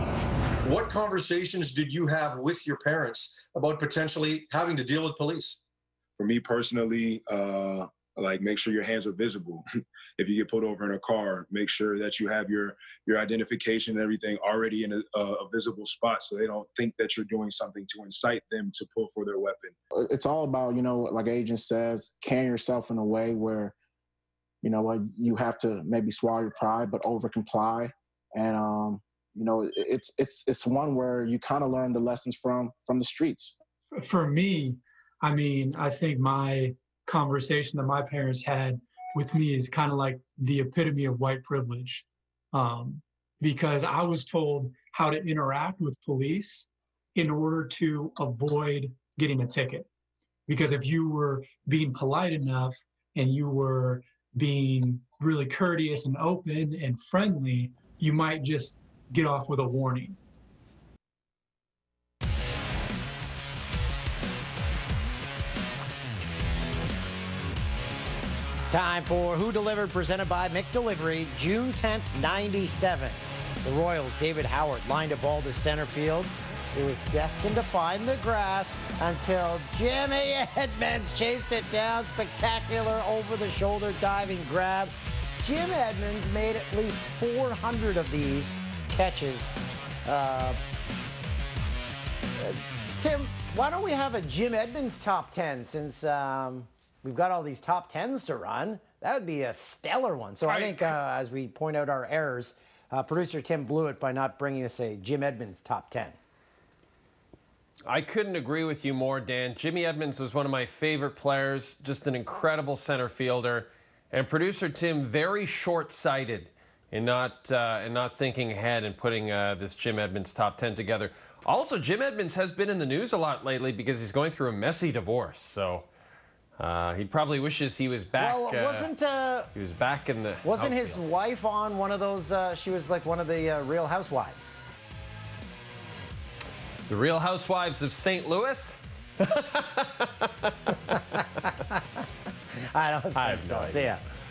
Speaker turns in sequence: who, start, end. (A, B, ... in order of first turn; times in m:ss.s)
0:00.6-0:05.6 A
0:06.2-0:19.8 B
0:19.9-0:23.7 C
0:24.6-0:33.5 C
0:34.0-0:49.9 D
0:50.5-1:00.2 D
1:08.7-1:29.5 E
1:30.0-1:30.6 E
1:32.4-1:46.2 E
1:40.5-1:40.8 F
1:47.9-2:05.9 F
2:06.6-2:08.9 F
2:08.2-2:09.5 E
2:09.5-2:11.0 F
2:10.4-2:14.5 E
2:16.9-2:20.3 F
2:22.7-2:24.0 E
2:23.2-2:23.9 F